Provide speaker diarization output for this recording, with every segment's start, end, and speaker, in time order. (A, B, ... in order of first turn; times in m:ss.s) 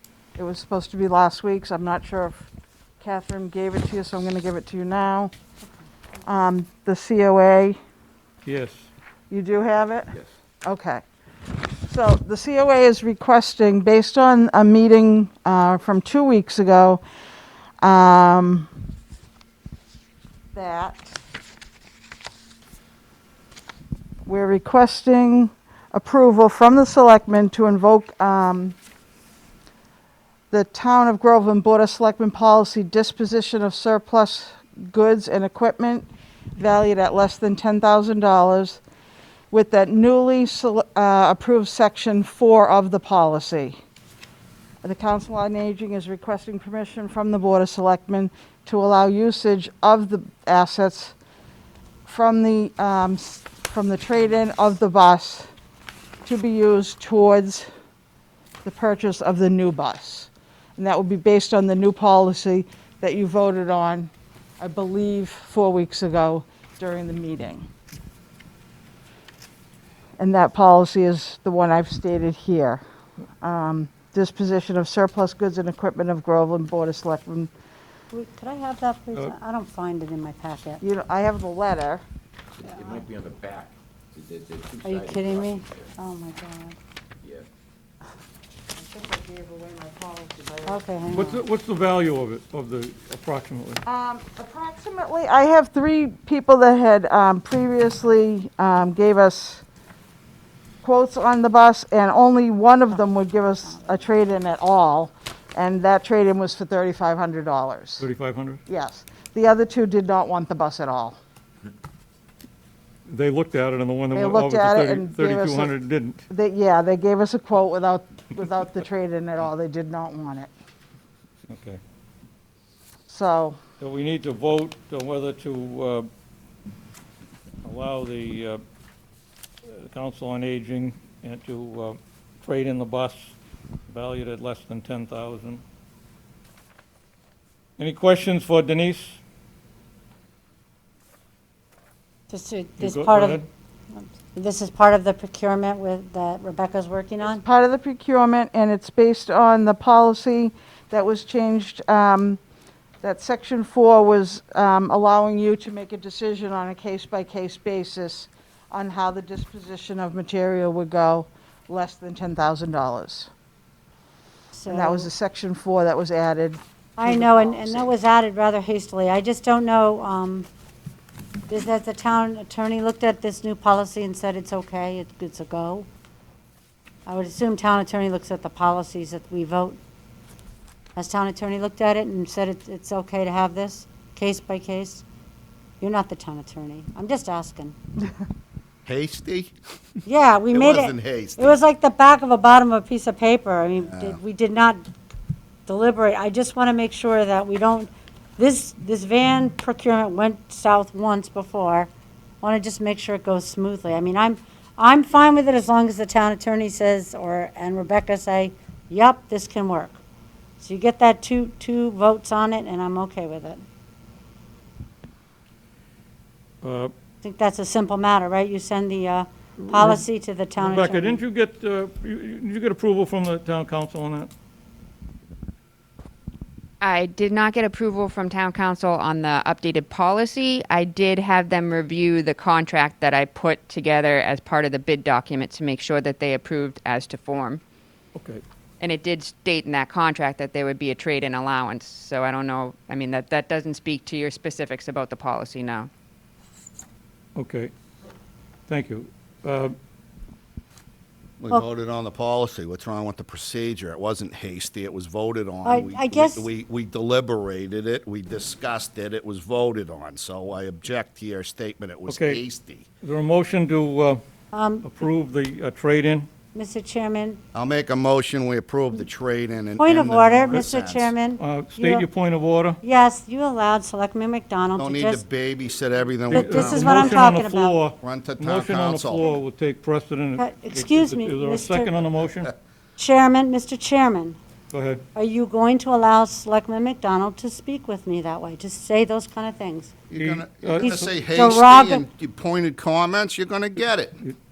0:00.4-0:02.4 A
0:03.0-0:05.3 A
0:06.2-0:07.8 A
0:08.4-0:08.9 B
0:09.3-0:10.1 A
0:10.6-0:11.0 A
0:11.8-0:17.0 A
0:17.8-0:18.7 A
0:20.5-0:21.2 A
0:24.2-0:28.8 A
0:30.5-0:38.8 A
0:39.5-0:43.8 A
0:44.8-0:51.1 A
0:52.1-0:55.5 A
0:56.2-0:57.7 A
0:58.6-1:07.7 A
1:10.2-1:12.8 A
1:13.4-1:17.5 A
1:18.1-1:20.8 C
1:20.8-1:22.0 A
1:22.6-1:25.9 D
1:24.8-1:26.8 C
1:28.8-1:30.8 A
1:30.6-1:31.4 C
1:31.1-1:33.8 B
1:33.8-1:39.6 A
1:40.8-1:48.0 A
1:48.0-1:48.6 B
1:48.7-1:51.2 A
1:53.1-1:56.2 B
1:54.1-1:55.8 A
1:56.3-2:00.5 A
2:01.5-2:01.8 B
2:03.1-2:03.6 A
2:03.8-2:06.1 B
2:07.6-2:08.6 B
2:09.7-2:13.4 B
2:13.9-2:15.6 B
2:17.8-2:19.2 B
2:22.3-2:23.4 C
2:22.8-2:23.5 B
2:24.0-2:27.4 C
2:27.2-2:32.4 A
2:33.0-2:43.3 A
2:44.5-2:45.1 C
2:44.7-2:47.9 A
2:47.0-2:50.5 C
2:51.5-2:55.9 C
2:57.1-2:59.8 C
3:01.0-3:05.0 C
3:05.8-3:07.8 C
3:08.8-3:09.5 E
3:10.0-3:14.9 C
3:10.5-3:11.6 E
3:13.9-3:14.2 E
3:15.7-3:21.9 C
3:22.4-3:30.0 C
3:30.6-3:33.6 C
3:36.6-3:36.9 B
3:37.2-3:41.2 C
3:39.6-3:40.0 B
3:40.6-3:44.3 B
3:46.8-3:57.6 F
3:58.1-3:58.4 B
3:58.8-4:05.9 F
4:07.4-4:07.7 B
4:08.7-4:09.7 B
4:11.4-4:22.9 E
4:15.6-4:16.5 C
4:22.1-4:22.4 B
4:23.0-4:24.2 B
4:24.5-4:24.9 C
4:24.8-4:26.3 B
4:26.5-4:27.4 C
4:27.5-4:31.1 E
4:29.8-4:32.1 C
4:31.4-4:32.8 B
4:32.8-4:35.2 C
4:34.8-4:37.4 E
4:36.3-4:37.8 C
4:36.3-4:42.5 B
4:38.0-4:39.4 E
4:40.4-4:41.9 C
4:43.0-4:44.4 C
4:44.7-4:45.0 B
4:45.1-4:50.1 C
4:50.1-4:54.2 E
4:50.1-4:51.1 B
4:50.8-4:52.0 C